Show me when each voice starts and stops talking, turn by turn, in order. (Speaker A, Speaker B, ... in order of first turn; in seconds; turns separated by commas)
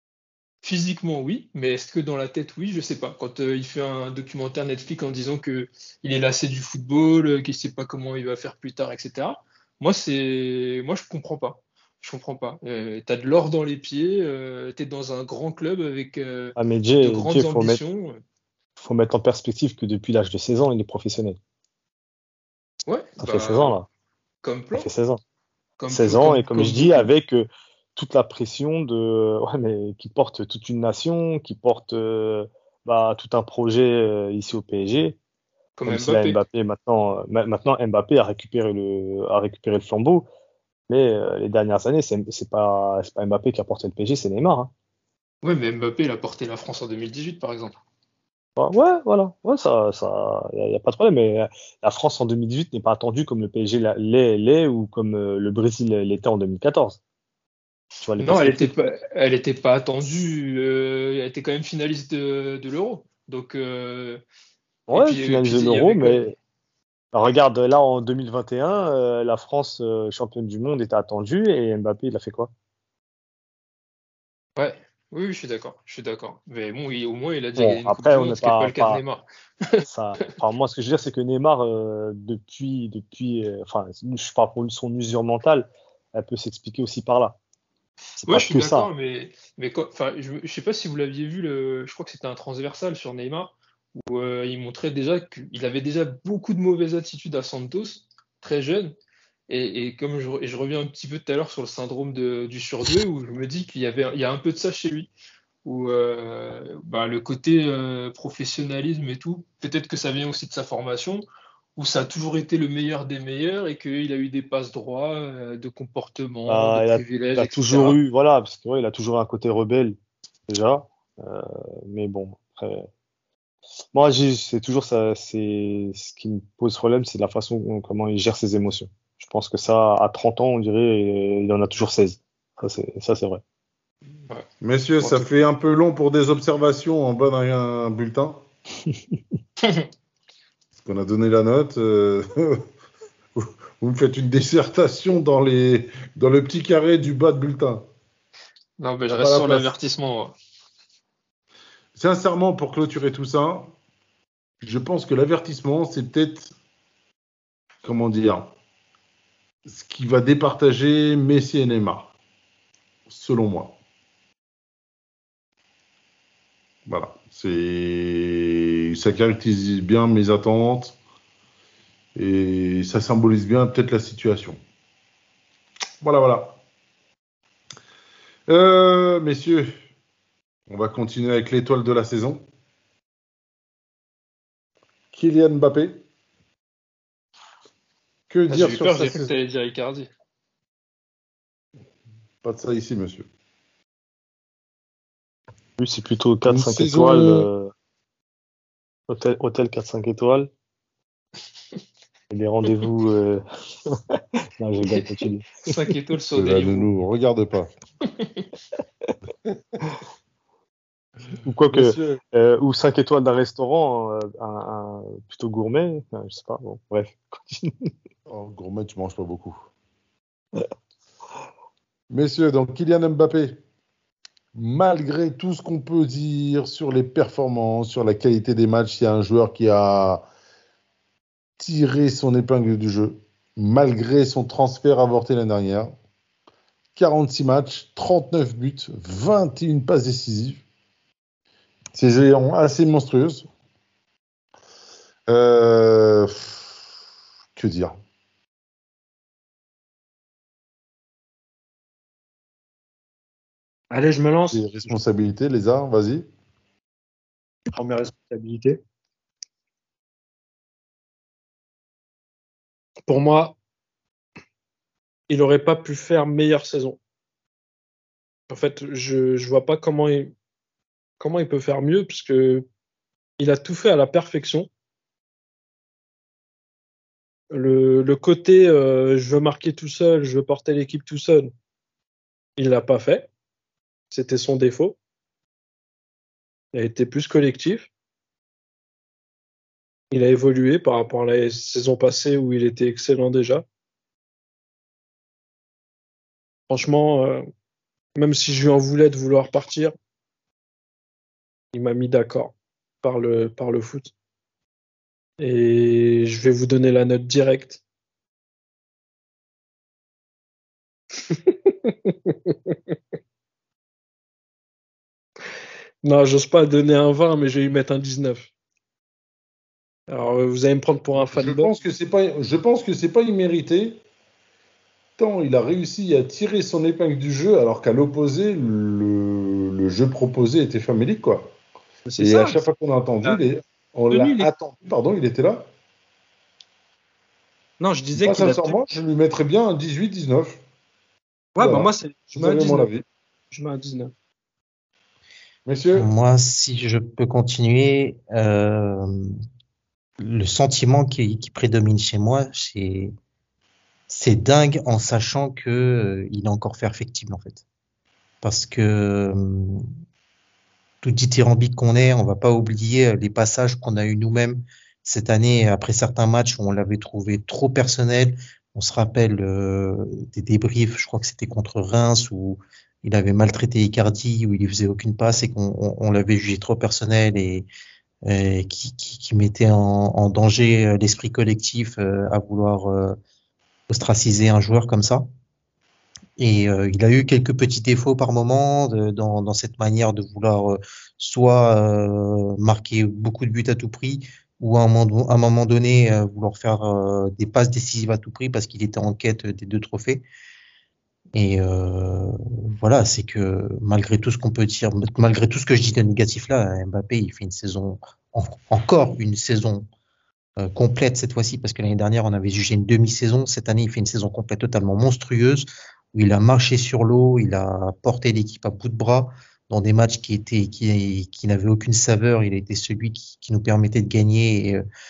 Speaker A: 0.6-18.2, Speaker B: 16.6-17.8, Speaker B: 18.8-21.4, Speaker A: 22.9-23.7, Speaker B: 23.2-23.9, Speaker A: 24.4-24.9, Speaker B: 24.7-25.2, Speaker A: 25.8-27.1, Speaker B: 25.9-35.2, Speaker A: 35.8-36.4, Speaker B: 35.9-40.3, Speaker B: 40.9-44.7, Speaker A: 45.4-47.7, Speaker B: 48.6-57.0, Speaker B: 58.0-58.7, Speaker A: 58.2-64.2, Speaker B: 64.9-66.3, Speaker A: 64.9-66.3, Speaker B: 67.1-72.5, Speaker A: 74.6-79.8, Speaker B: 77.5-79.0, Speaker B: 79.8-87.4, Speaker B: 88.2-88.9, Speaker A: 88.2-98.9, Speaker A: 99.5-105.1, Speaker A: 105.6-111.2, Speaker A: 111.8-118.0, Speaker B: 116.5-120.0, Speaker B: 120.5-122.9, Speaker B: 123.9-133.4, Speaker C: 134.6-138.4, Speaker A: 135.0-135.3, Speaker C: 140.8-142.6, Speaker C: 143.3-147.9, Speaker A: 148.8-150.3, Speaker C: 149.2-149.7, Speaker C: 151.9-153.7, Speaker C: 154.6-156.5, Speaker C: 157.8-158.5, Speaker C: 159.7-162.1, Speaker C: 163.1-163.8, Speaker C: 166.9-171.0, Speaker C: 172.2-174.6, Speaker C: 176.0-176.6, Speaker C: 178.5-179.8, Speaker C: 180.7-182.4, Speaker C: 185.1-186.0, Speaker C: 188.3-189.3, Speaker A: 188.5-190.1, Speaker C: 192.4-193.3, Speaker B: 195.8-197.7, Speaker C: 196.5-197.5, Speaker B: 199.1-200.5, Speaker B: 202.3-205.7, Speaker A: 205.6-206.9, Speaker C: 206.3-207.7, Speaker A: 208.0-208.4, Speaker B: 211.4-217.9, Speaker C: 211.7-212.2, Speaker C: 218.3-219.6, Speaker C: 222.1-223.6, Speaker C: 224.5-230.3, Speaker C: 231.6-235.9, Speaker C: 236.9-240.6, Speaker C: 241.9-243.5, Speaker C: 245.3-246.7, Speaker C: 247.6-248.0, Speaker D: 253.9-254.8, Speaker C: 254.5-256.2, Speaker D: 257.7-258.8, Speaker D: 263.1-263.6, Speaker D: 265.3-267.0, Speaker D: 268.5-270.3, Speaker D: 271.2-272.6, Speaker D: 273.4-274.7, Speaker D: 277.5-281.5, Speaker D: 282.6-283.3, Speaker D: 284.1-284.9, Speaker D: 286.7-287.9, Speaker D: 290.1-293.6, Speaker D: 296.7-297.4, Speaker D: 298.1-299.9, Speaker D: 301.7-304.1, Speaker D: 305.4-307.8, Speaker D: 311.3-312.8, Speaker D: 316.0-318.5, Speaker D: 320.1-321.7, Speaker C: 321.2-324.0, Speaker C: 325.2-331.5, Speaker D: 332.1-332.6, Speaker C: 332.2-335.7, Speaker D: 334.1-334.5, Speaker D: 337.8-339.0, Speaker C: 338.1-340.6, Speaker D: 341.6-342.9, Speaker C: 341.6-343.0, Speaker D: 343.5-344.1, Speaker C: 345.6-346.1, Speaker E: 345.9-349.3, Speaker E: 350.2-353.1, Speaker E: 354.1-357.6, Speaker E: 358.4-359.9, Speaker E: 361.0-377.7, Speaker E: 378.2-383.2, Speaker E: 383.9-385.2, Speaker E: 386.4-400.2, Speaker E: 401.3-409.9, Speaker E: 410.6-424.8